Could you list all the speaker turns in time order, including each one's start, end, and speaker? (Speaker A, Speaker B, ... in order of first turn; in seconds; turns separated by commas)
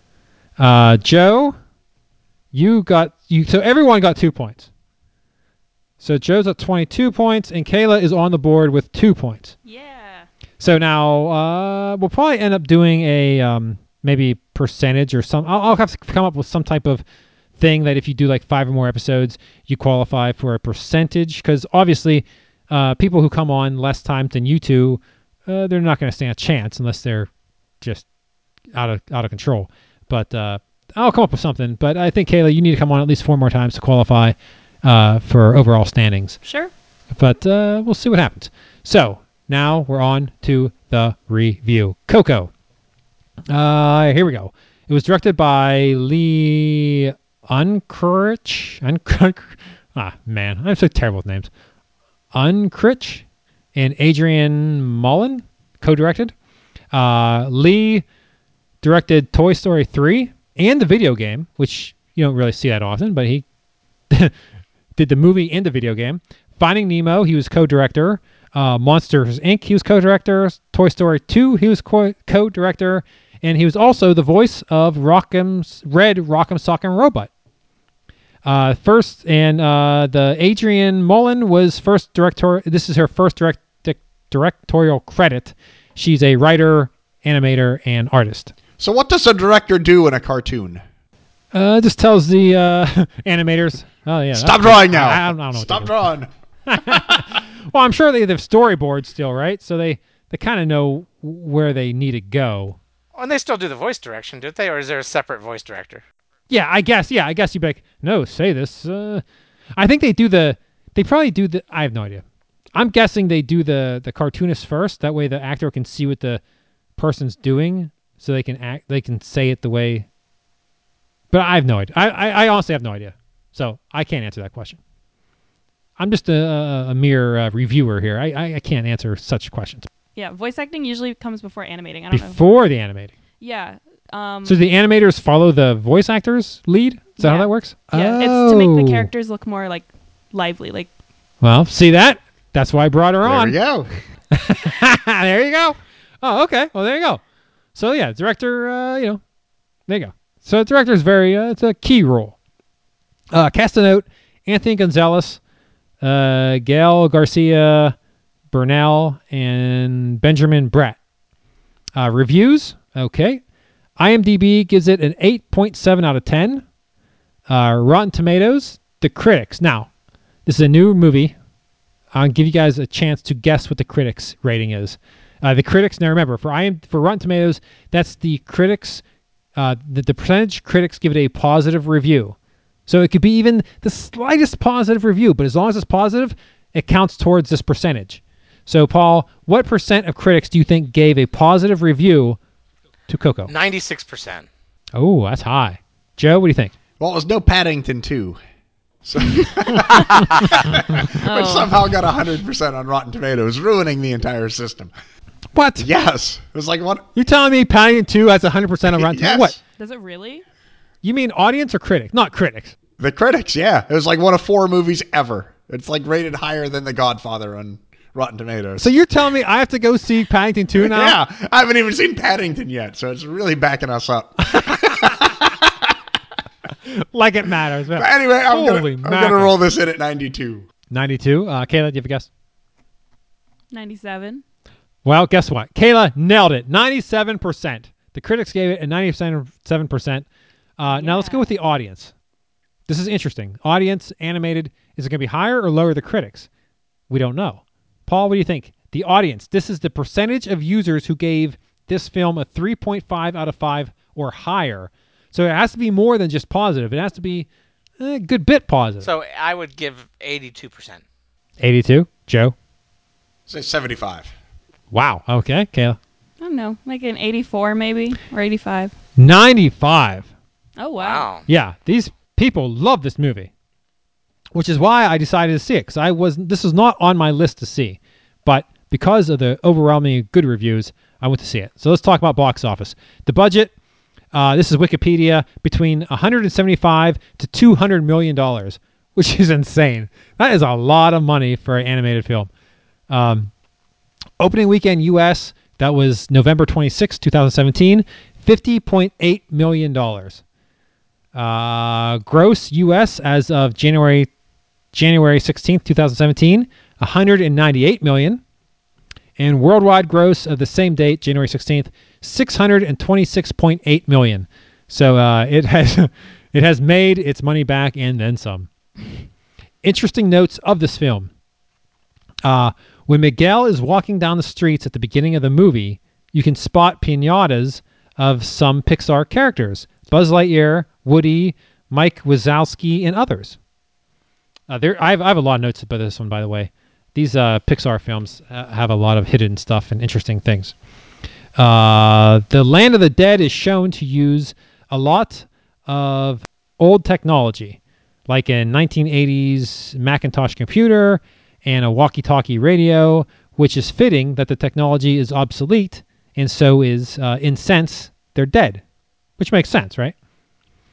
Speaker A: 0.6-1.6, Speaker A: 2.5-4.7, Speaker A: 6.0-9.5, Speaker B: 9.6-10.3, Speaker A: 10.6-17.0, Speaker A: 17.6-27.3, Speaker A: 27.8-28.1, Speaker A: 28.7-36.4, Speaker B: 36.4-36.7, Speaker A: 37.1-42.5, Speaker A: 43.5-51.5, Speaker A: 52.3-56.3, Speaker A: 56.9-58.0, Speaker A: 58.8-63.5, Speaker A: 64.9-77.3, Speaker A: 78.4-88.5, Speaker C: 88.8-90.8, Speaker A: 91.5-96.0, Speaker C: 94.3-97.3, Speaker A: 96.7-102.8, Speaker D: 103.1-106.0, Speaker A: 106.5-109.2, Speaker A: 109.8-112.2, Speaker A: 112.7-116.4, Speaker A: 117.0-120.1, Speaker A: 121.3-124.8, Speaker A: 126.0-129.9, Speaker B: 130.2-132.4, Speaker A: 132.1-133.1, Speaker B: 133.4-134.6, Speaker A: 134.4-139.1, Speaker B: 137.2-140.9, Speaker A: 141.4-143.6, Speaker C: 143.2-143.9, Speaker A: 144.3-147.2, Speaker A: 147.7-149.2, Speaker A: 149.9-152.3, Speaker A: 153.3-155.4, Speaker A: 156.0-157.9, Speaker A: 158.5-161.0, Speaker A: 161.9-163.4, Speaker A: 164.0-166.6, Speaker A: 167.5-169.9, Speaker A: 170.4-171.3, Speaker A: 172.1-179.0, Speaker A: 179.6-182.3, Speaker A: 182.9-192.4, Speaker A: 193.1-193.5, Speaker D: 193.5-194.5, Speaker A: 194.9-196.7, Speaker C: 197.0-198.4, Speaker C: 199.0-204.9, Speaker B: 201.2-201.8, Speaker A: 205.5-205.9, Speaker C: 205.8-207.1, Speaker A: 207.2-209.5, Speaker C: 208.9-209.5, Speaker B: 209.6-210.4, Speaker A: 211.0-212.7, Speaker C: 213.0-218.9, Speaker A: 218.8-221.2, Speaker C: 220.8-225.9, Speaker A: 226.9-229.6, Speaker C: 227.9-230.7, Speaker A: 230.9-232.3, Speaker B: 233.7-234.4, Speaker A: 235.0-240.3, Speaker A: 240.8-242.1, Speaker B: 240.9-241.5, Speaker A: 242.9-246.5, Speaker A: 247.1-257.5, Speaker A: 258.0-259.1, Speaker D: 259.0-261.0, Speaker A: 261.6-262.5, Speaker C: 263.5-264.3, Speaker A: 264.9-266.0, Speaker B: 266.4-268.9, Speaker A: 269.2-270.3, Speaker B: 270.8-271.3, Speaker D: 271.0-271.4, Speaker A: 271.5-273.5, Speaker A: 274.5-283.7, Speaker A: 284.3-292.5, Speaker A: 293.1-293.5, Speaker A: 294.4-300.4, Speaker A: 301.3-304.3, Speaker A: 304.9-308.4, Speaker A: 309.4-318.7, Speaker A: 319.8-321.3, Speaker A: 322.4-333.6, Speaker A: 334.7-340.7, Speaker A: 341.6-358.8, Speaker A: 359.4-360.1